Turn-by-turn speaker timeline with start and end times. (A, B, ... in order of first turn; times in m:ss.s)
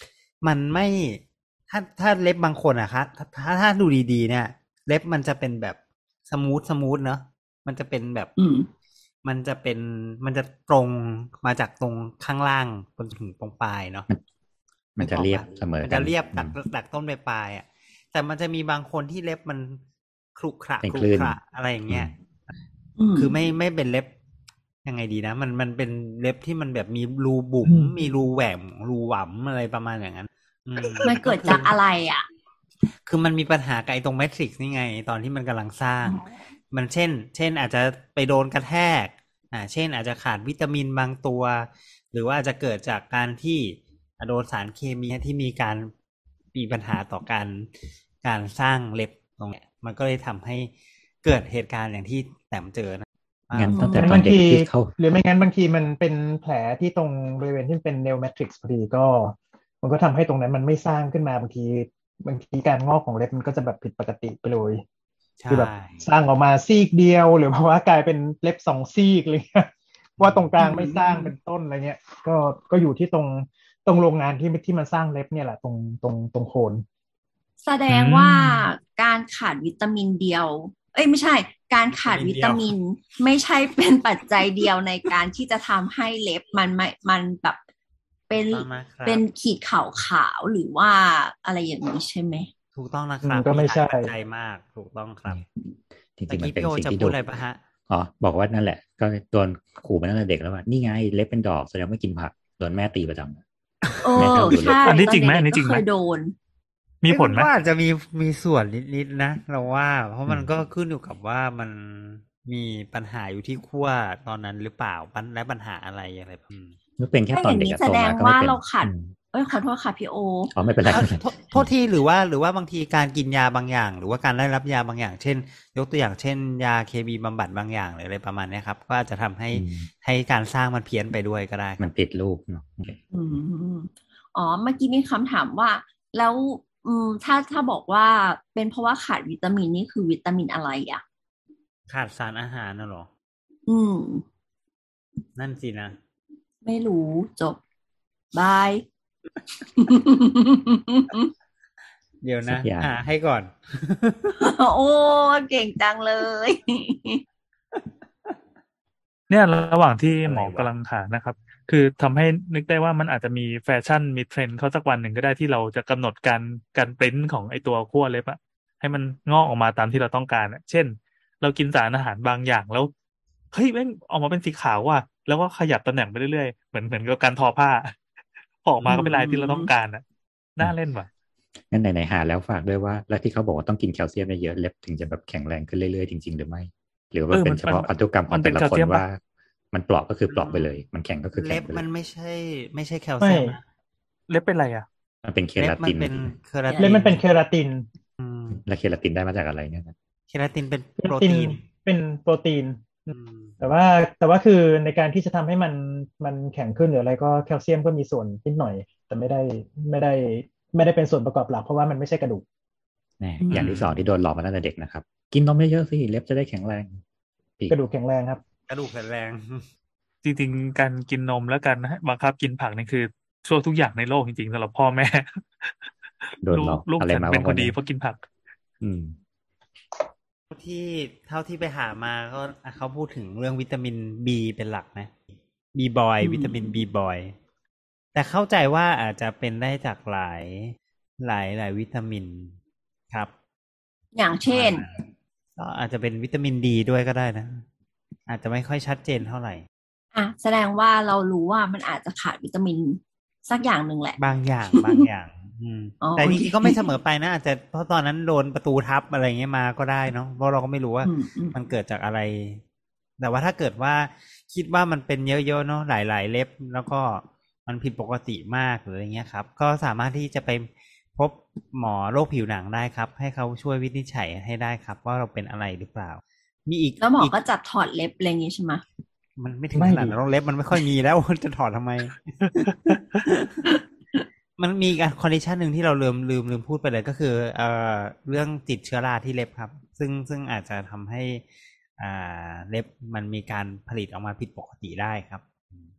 0:00.4-0:08.3 A
0:08.4-0:08.7 B
0:09.2-0:14.1 A
0:15.0-0:16.6 C
0:15.0-0:19.8 A
0:20.4-0:22.1 A
0:20.8-0:22.1 C
0:23.0-0:23.4 B
0:23.1-0:24.1 A
0:24.8-0:31.8 A
0:27.6-0:27.9 D
0:31.0-0:32.2 B
0:33.0-0:45.9 A
0:46.5-0:47.7 A
0:48.2-0:50.7 A
0:51.2-0:53.8 A
0:53.5-0:54.9 C
0:53.7-0:54.2 B
0:54.0-1:04.8 D
1:05.4-1:06.1 A
1:05.5-1:16.8 D
1:10.2-1:10.5 A
1:10.6-1:11.3 B
1:17.6-1:27.6 B
1:17.9-1:18.7 E
1:21.9-1:22.7 A
1:28.3-1:32.5 B
1:28.3-1:29.2 A
1:32.7-1:35.4 A
1:33.2-1:34.1 D
1:35.3-1:37.2 C
1:36.3-1:37.6 A
1:37.9-1:43.4 C
1:44.0-1:46.3 B
1:44.1-1:44.9 C
1:44.8-1:45.8 E
1:47.0-1:47.5 E
1:47.0-1:56.7 A
1:57.0-1:59.1 C
1:57.3-2:00.5 B
2:00.5-2:01.7 C
2:00.8-2:11.8 A
2:09.5-2:09.9 C
2:11.8-2:13.0 C
2:13.1-2:21.0 B
2:21.9-2:23.1 A
2:23.7-2:24.2 B
2:25.4-2:26.0 A
2:26.6-2:27.6 B
2:28.3-2:28.8 B
2:29.7-2:31.3 B
2:32.2-2:34.5 A
2:32.4-2:32.9 C
2:34.4-2:37.2 B
2:39.3-2:52.9 E
2:40.2-2:40.7 C
2:53.5-2:58.0 E
2:58.6-3:00.0 E
2:58.8-2:59.7 B
3:00.6-3:01.1 E
3:01.7-3:09.2 C
3:07.3-3:09.0 E
3:09.7-3:11.8 C
3:10.3-3:10.8 A
3:11.3-3:13.6 A
3:13.2-3:13.6 D
3:14.3-3:14.8 E
3:15.2-3:16.4 C
3:15.6-3:17.2 A
3:16.7-3:17.0 B
3:16.8-3:17.8 D
3:18.2-3:18.6 A
3:18.5-3:19.9 C
3:20.3-3:21.6 A
3:21.0-3:32.4 D
3:23.1-3:23.6 A
3:33.2-3:37.0 C
3:33.4-3:33.7 B
3:33.5-3:33.9 A
3:37.7-3:38.4 D
3:38.7-3:39.6 A
3:40.2-3:45.9 E
3:46.4-3:47.8 C
3:46.4-3:48.2 E
3:48.8-3:49.2 C
3:50.5-3:55.1 A
3:55.7-3:57.3 A
3:56.2-3:56.8 B
3:58.1-4:02.6 A
4:04.1-4:04.8 B
4:04.5-4:05.0 A
4:05.6-4:07.6 A
4:08.3-4:09.6 A
4:10.1-4:14.2 B
4:14.2-4:22.6 A
4:14.7-4:15.1 B
4:16.0-4:16.9 B
4:21.0-4:21.6 B
4:23.2-4:37.3 A
4:37.0-4:38.8 B
4:39.4-4:43.6 A
4:39.7-4:40.2 D
4:44.6-4:51.4 A
4:52.0-4:55.8 A